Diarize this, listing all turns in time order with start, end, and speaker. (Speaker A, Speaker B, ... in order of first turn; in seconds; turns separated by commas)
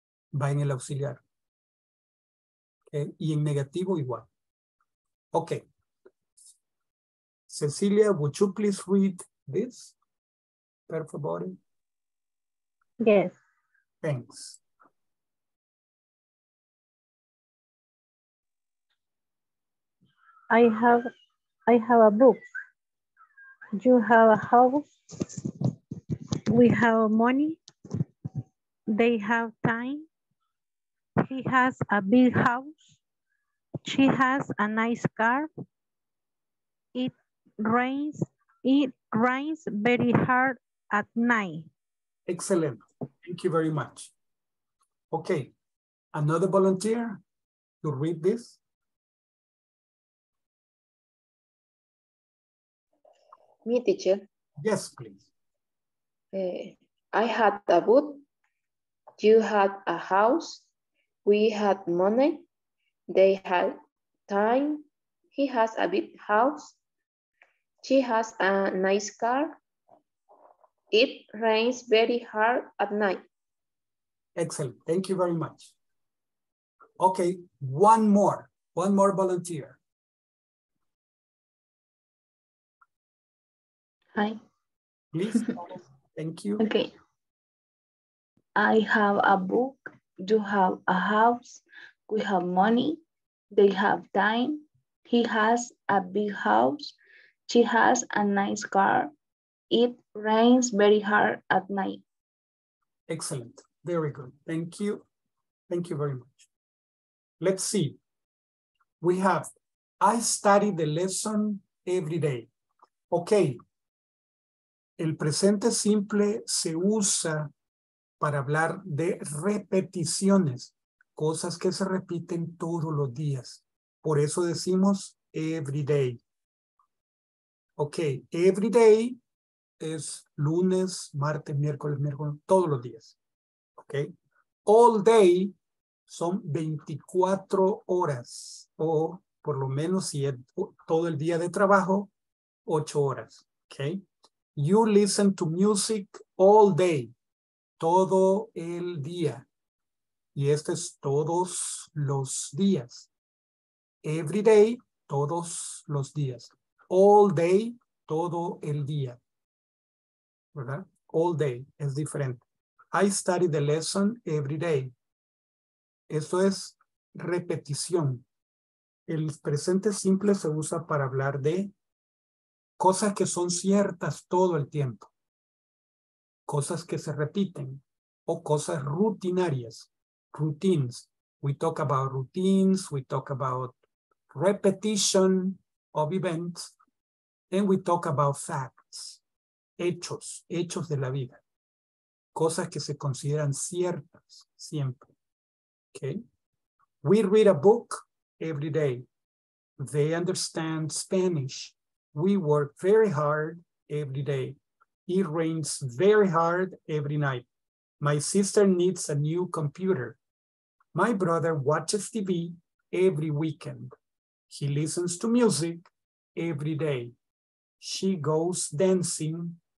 Speaker A: 0.3-1.2, Speaker A: 2.9-4.3, Speaker A: 5.3-5.6, Speaker A: 7.5-9.9, Speaker A: 10.9-11.6, Speaker B: 13.0-13.4, Speaker A: 14.0-14.6, Speaker B: 20.5-21.1, Speaker B: 21.7-22.4, Speaker B: 23.8-24.9, Speaker B: 26.5-27.6, Speaker B: 28.9-30.1, Speaker B: 31.2-32.9, Speaker B: 33.9-35.5, Speaker B: 37.0-41.7, Speaker A: 42.3-44.1, Speaker A: 45.1-45.5, Speaker A: 46.1-47.2, Speaker A: 47.8-48.6, Speaker C: 53.7-54.2, Speaker A: 54.6-55.3, Speaker C: 56.3-58.2, Speaker C: 59.2-60.6, Speaker C: 61.2-62.4, Speaker C: 63.1-63.8, Speaker C: 64.3-66.8, Speaker C: 67.8-69.6, Speaker C: 70.9-73.2, Speaker A: 74.4-75.7, Speaker A: 77.0-79.8, Speaker A: 85.1-86.6, Speaker D: 86.6-86.9, Speaker D: 88.6-93.0, Speaker D: 93.5-97.0, Speaker D: 97.5-99.1, Speaker D: 99.7-102.0, Speaker A: 103.1-105.0, Speaker A: 105.7-106.5, Speaker A: 107.4-108.0, Speaker A: 109.0-109.5, Speaker A: 110.0-112.5, Speaker A: 113.1-113.6, Speaker A: 115.0-117.5, Speaker A: 118.2-126.2, Speaker A: 127.8-129.2, Speaker A: 129.8-133.2, Speaker A: 133.8-134.1, Speaker A: 134.7-135.6, Speaker A: 136.1-142.1, Speaker A: 142.7-144.0, Speaker A: 144.6-147.1, Speaker A: 147.8-149.5, Speaker A: 150.3-153.1, Speaker A: 154.0-159.2, Speaker A: 160.5-164.9, Speaker A: 166.1-168.2, Speaker A: 169.1-171.7, Speaker A: 172.8-175.1, Speaker A: 176.5-183.8, Speaker A: 184.3-186.7, Speaker A: 187.5-189.2, Speaker A: 189.8-191.4, Speaker A: 192.3-195.1, Speaker A: 195.9-196.2, Speaker A: 197.0-199.1, Speaker A: 199.8-207.5, Speaker A: 208.0-210.2, Speaker A: 210.9-213.9, Speaker A: 214.5-217.1, Speaker A: 217.8-219.6